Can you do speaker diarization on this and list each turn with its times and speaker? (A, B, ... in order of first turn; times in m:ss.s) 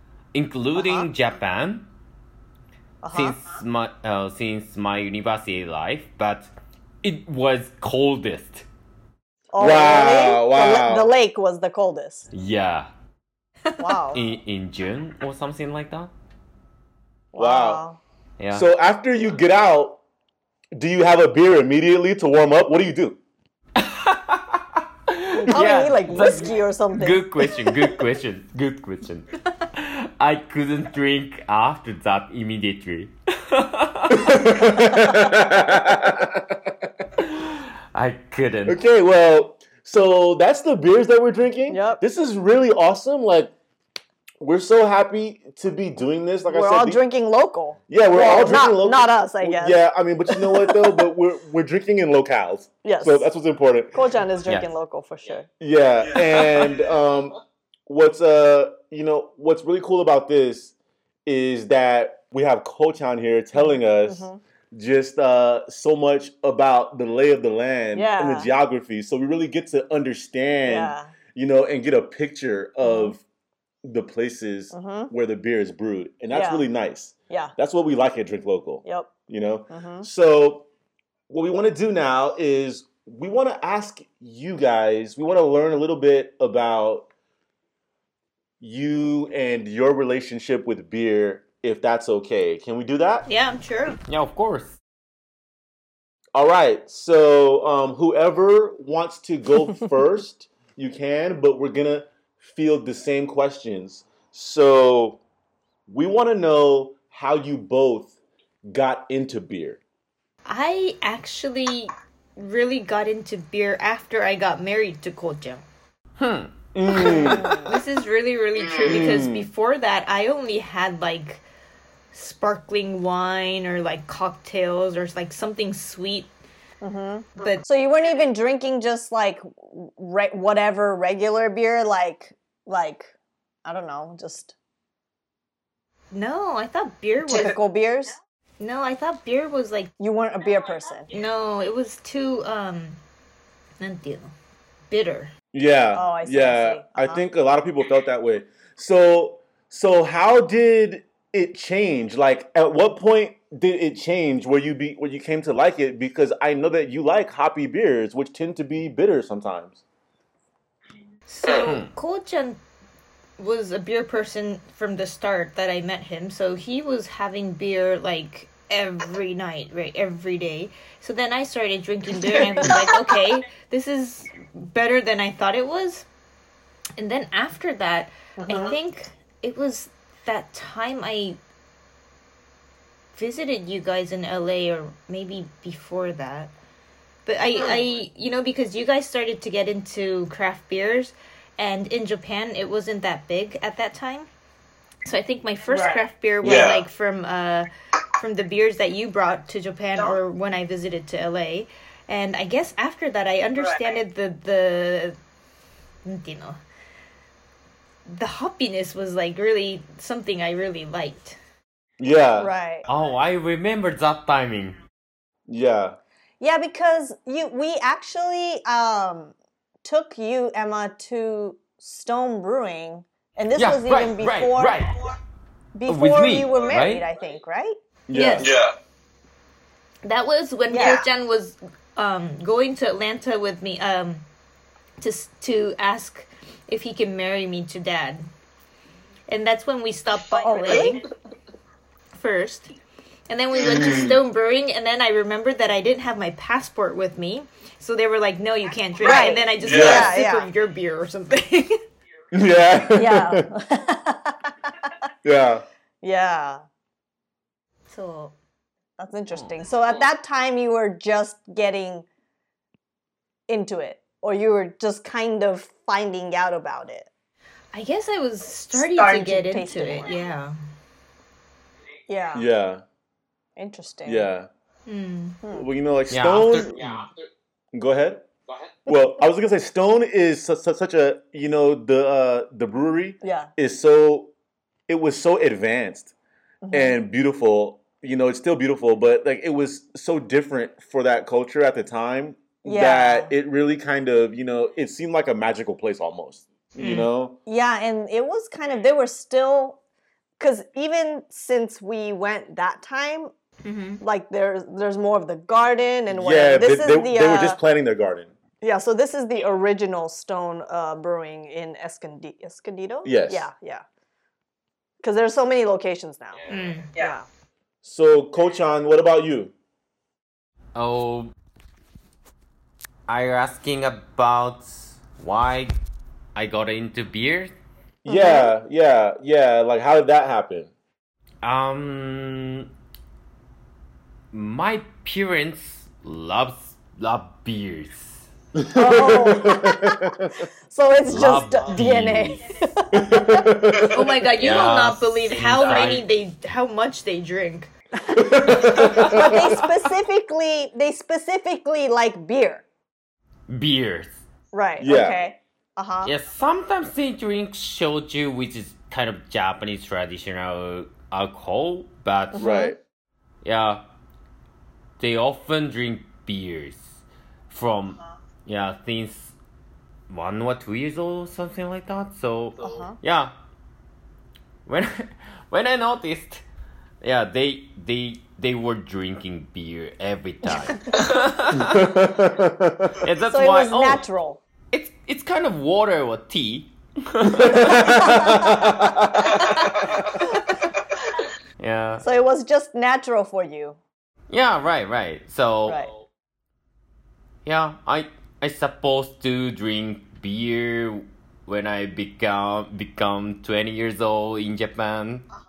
0:00.3-0:01.9 A
0:00.8-0:01.1 B
0:03.0-0:03.4 B
0:03.1-0:06.5 A
0:07.0-0:08.6 A
0:09.5-0:12.2 B
0:09.6-0:11.1 C
0:12.3-0:12.9 A
0:13.8-0:14.2 B
0:14.1-0:16.1 A
0:17.3-0:18.0 B
0:17.4-0:17.8 C
0:18.4-0:18.6 A
0:18.5-0:20.0 C
0:20.7-0:23.2 C
0:23.8-0:34.6 A
0:25.3-0:27.7 B
0:34.1-0:36.5 C
0:37.2-0:38.8 A
0:38.7-0:43.5 C
0:41.7-0:42.0 B
0:44.4-0:47.0 C
0:46.5-0:51.0 B
0:47.9-0:54.1 C
0:52.8-0:53.3 B
0:53.9-0:55.5 B
0:55.6-0:57.4 C
0:57.9-1:00.7 C
1:01.2-1:13.2 C
1:03.6-1:04.4 B
1:07.9-1:08.5 B
1:10.6-1:11.1 B
1:12.8-1:13.2 B
1:13.8-1:20.7 C
1:14.7-1:15.1 B
1:16.3-1:16.6 B
1:18.8-1:19.1 B
1:19.7-1:20.1 B
1:21.3-1:27.1 C
1:28.6-1:33.2 C
1:33.2-1:34.0 D
1:34.1-1:34.8 A
1:36.3-1:45.2 C
1:45.9-1:48.1 C
1:48.6-1:49.8 C
1:50.4-1:55.6 D
1:56.2-1:56.5 A
1:56.7-1:57.6 C
1:56.9-2:01.4 D
1:57.0-1:57.7 B
1:58.8-1:59.5 C
2:02.1-2:06.3 D
2:06.8-2:13.1 B
2:07.4-2:07.6 D
2:13.6-2:14.5 B
2:16.1-2:17.6 D
2:17.2-2:18.2 B
2:18.6-2:19.9 D
2:20.0-2:21.1 B
2:21.1-2:23.0 D
2:23.8-2:24.3 D
2:24.9-2:25.3 D
2:25.5-2:39.8 C
2:25.9-2:27.2 B
2:41.3-2:42.6 D
2:41.5-2:41.9 A
2:43.4-2:56.0 D
2:57.0-3:01.4 D
2:58.4-2:58.8 B
3:03.1-3:06.5 D
3:07.2-3:14.3 D
3:15.0-3:25.2 D
3:15.7-3:16.7 B
3:26.0-3:26.6 D
3:28.0-3:31.4 D
3:32.0-3:32.5 C
3:32.4-3:32.8 B
3:32.9-3:34.8 A
3:35.5-3:36.0 C
3:36.4-3:44.9 B
3:43.5-3:44.9 A
3:45.7-3:47.7 B
3:45.8-3:47.1 A
3:48.1-3:48.5 C
3:48.1-3:48.5 D
3:50.0-3:54.2 D
3:50.7-3:51.0 B
3:55.0-3:58.3 D
3:59.3-4:01.0 D
4:00.4-4:01.0 B
4:02.1-4:02.7 D
4:03.3-4:11.8 D
4:09.0-4:10.5 B
4:09.6-4:10.1 C
4:12.3-4:13.5 C
4:12.9-4:14.9 B
4:15.2-4:15.6 C
4:16.0-4:16.6 B
4:17.9-4:18.3 D
4:19.0-4:22.0 B
4:23.5-4:27.1 B
4:27.7-4:30.5 D
4:28.8-4:30.1 B
4:32.1-4:32.5 B
4:32.3-4:32.8 C
4:33.6-4:34.3 B
4:34.0-4:34.5 C
4:34.9-4:35.4 D
4:35.5-4:37.0 C
4:36.1-4:37.1 A
4:37.7-4:38.2 C
4:38.8-4:44.3 C
4:43.2-4:43.5 B
4:44.9-4:46.1 C
4:46.6-4:47.0 B
4:46.7-4:57.4 C
4:52.6-4:53.3 B
4:56.8-4:57.1 D
4:57.4-4:59.8 B
5:00.4-5:03.3 B
5:03.6-5:04.0 D
5:04.0-5:07.6 B
5:06.1-5:08.3 C
5:08.6-5:13.8 B
5:13.0-5:13.5 C
5:15.0-5:17.2 B
5:16.5-5:16.9 D
5:17.8-5:19.5 C
5:20.7-5:21.3 A
5:23.1-5:25.8 A
5:26.3-5:27.5 A
5:28.0-5:30.7 C
5:28.1-5:28.5 B
5:31.4-5:32.7 A
5:34.3-5:38.2 A
5:38.5-5:40.4 C
5:38.7-5:40.2 B
5:40.7-5:43.7 B
5:41.1-5:42.4 A
5:42.9-5:44.2 C
5:43.9-5:47.7 D
5:44.3-5:46.0 A
5:48.1-5:49.6 C
5:48.4-5:52.6 B
5:48.8-5:49.5 A
5:53.5-5:54.2 A
5:54.5-5:56.1 B
5:54.8-5:55.2 C
5:56.0-6:02.6 A
6:02.3-6:02.7 B
6:02.4-6:02.8 C
6:03.4-6:03.8 A
6:05.0-6:09.3 A
6:10.1-6:13.3 A
6:12.6-6:13.0 B
6:14.6-6:16.4 A
6:17.0-6:22.0 A
6:21.6-6:23.0 C
6:23.0-6:24.0 A
6:23.3-6:24.4 B
6:24.7-6:28.1 A
6:27.2-6:29.5 C
6:31.6-6:32.0 A
6:32.0-6:33.8 B
6:34.3-6:35.8 A
6:37.4-6:45.2 A